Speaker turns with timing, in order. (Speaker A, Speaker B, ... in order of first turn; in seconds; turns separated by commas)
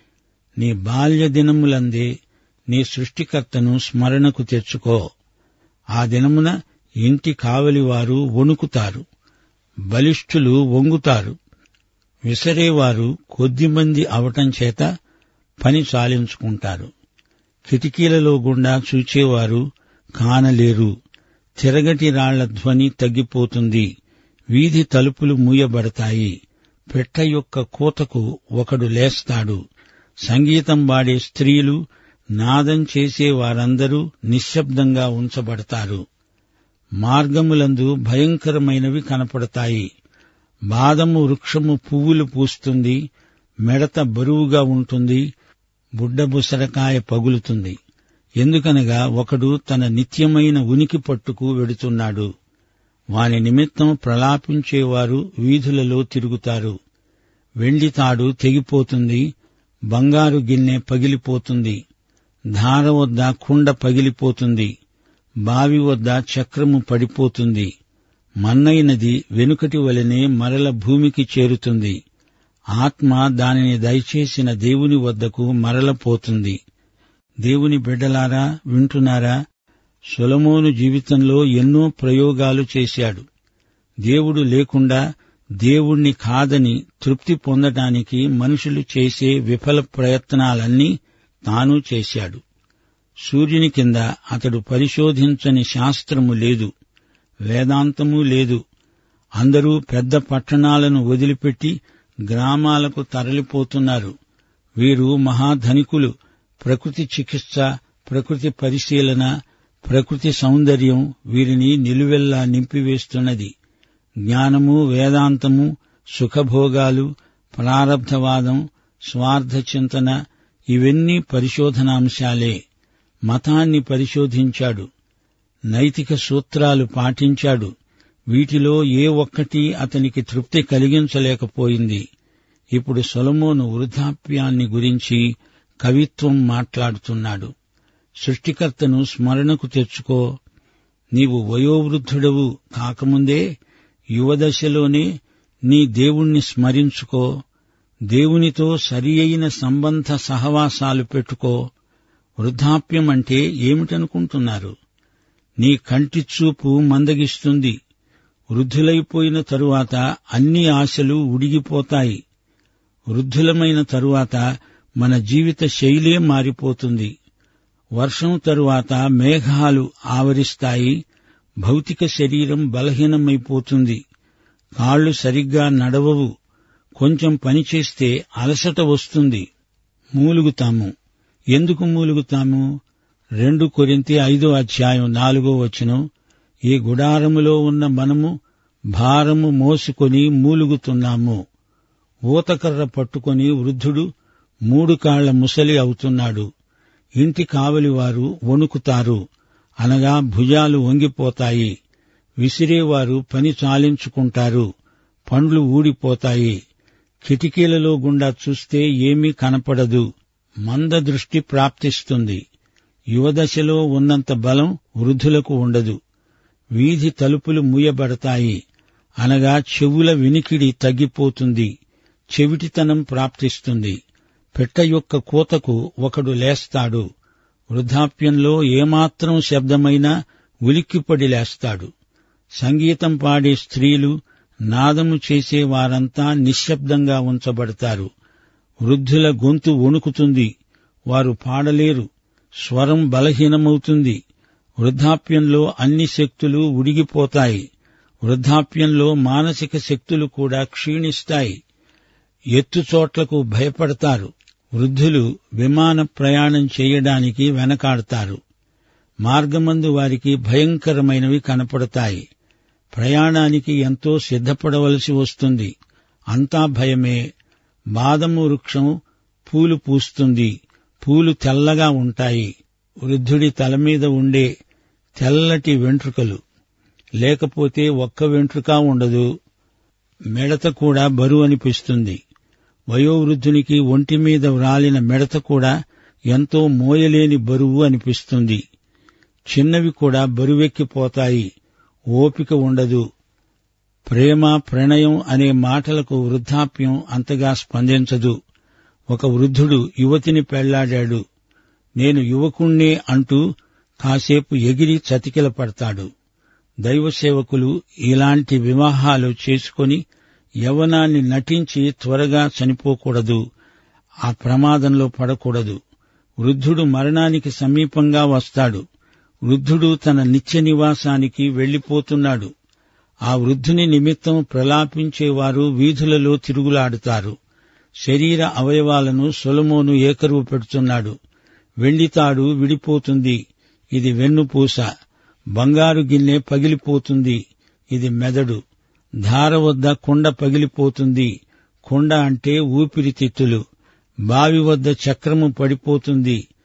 Speaker A: 0.6-2.1, Speaker A: 2.7-5.0, Speaker A: 6.0-6.5, Speaker A: 7.0-9.0, Speaker A: 9.9-11.3, Speaker A: 12.3-14.8, Speaker A: 15.6-16.9, Speaker A: 17.6-19.6, Speaker A: 20.2-20.9, Speaker A: 21.6-23.9, Speaker A: 24.5-26.3, Speaker A: 26.9-29.6, Speaker A: 30.2-31.8, Speaker A: 32.4-36.0, Speaker A: 37.0-39.9, Speaker A: 40.7-43.0, Speaker A: 43.7-45.2, Speaker A: 46.0-47.8, Speaker A: 48.4-52.3, Speaker A: 53.1-56.8, Speaker A: 57.6-59.2, Speaker A: 59.9-61.8, Speaker A: 62.5-64.7, Speaker A: 65.5-67.7, Speaker A: 68.4-72.0, Speaker A: 72.8-76.6, Speaker A: 77.4-79.3, Speaker A: 80.1-83.2, Speaker A: 84.0-85.0, Speaker A: 85.6-90.9, Speaker A: 91.5-92.4, Speaker A: 93.2-96.7, Speaker A: 97.5-98.6, Speaker A: 99.4-101.8, Speaker A: 102.3-104.1, Speaker A: 104.8-106.1, Speaker A: 106.6-109.3, Speaker A: 109.8-113.5, Speaker A: 114.2-120.1, Speaker A: 120.7-122.6, Speaker A: 123.3-124.9, Speaker A: 125.7-127.7, Speaker A: 128.3-132.0, Speaker A: 132.7-135.2, Speaker A: 135.8-137.5, Speaker A: 138.2-140.2, Speaker A: 141.1-143.4, Speaker A: 144.2-145.1, Speaker A: 145.7-147.3, Speaker A: 148.1-151.6, Speaker A: 152.4-154.7, Speaker A: 155.6-157.8, Speaker A: 158.5-162.2, Speaker A: 163.1-164.4, Speaker A: 165.0-167.1, Speaker A: 168.0-170.9, Speaker A: 171.6-174.0, Speaker A: 174.8-176.3, Speaker A: 177.0-179.4, Speaker A: 180.2-180.9, Speaker A: 181.5-182.7, Speaker A: 183.4-186.0, Speaker A: 186.7-188.3, Speaker A: 188.9-191.4, Speaker A: 192.3-194.1, Speaker A: 194.7-196.5, Speaker A: 197.2-199.2, Speaker A: 199.8-201.7, Speaker A: 202.4-204.7, Speaker A: 205.3-206.6, Speaker A: 207.2-210.0, Speaker A: 210.7-212.4, Speaker A: 213.1-216.0, Speaker A: 216.8-218.6, Speaker A: 219.2-221.7, Speaker A: 222.3-224.0, Speaker A: 224.6-227.1, Speaker A: 227.7-230.1, Speaker A: 230.7-231.9, Speaker A: 232.6-234.1, Speaker A: 234.7-238.1, Speaker A: 238.8-240.5, Speaker A: 241.1-242.1, Speaker A: 242.6-244.2, Speaker A: 244.8-247.6, Speaker A: 248.2-251.6, Speaker A: 252.6-258.4, Speaker A: 259.2-262.2, Speaker A: 262.9-265.7, Speaker A: 266.3-267.2, Speaker A: 267.9-268.9, Speaker A: 269.5-270.5, Speaker A: 271.0-272.5, Speaker A: 273.0-274.5, Speaker A: 275.2-276.4, Speaker A: 277.2-279.3, Speaker A: 280.3-282.2, Speaker A: 282.9-285.7, Speaker A: 286.3-288.6, Speaker A: 289.5-291.5, Speaker A: 292.1-293.0, Speaker A: 294.1-298.4, Speaker A: 299.1-301.2, Speaker A: 302.0-303.4, Speaker A: 304.0-306.1, Speaker A: 306.8-310.0, Speaker A: 310.6-313.4, Speaker A: 314.3-315.8, Speaker A: 316.4-318.8, Speaker A: 319.4-322.5, Speaker A: 323.3-327.4, Speaker A: 328.0-331.1, Speaker A: 331.8-333.4, Speaker A: 333.9-334.9, Speaker A: 335.6-337.4, Speaker A: 337.9-338.6, Speaker A: 339.2-341.3, Speaker A: 341.9-343.6, Speaker A: 344.3-346.4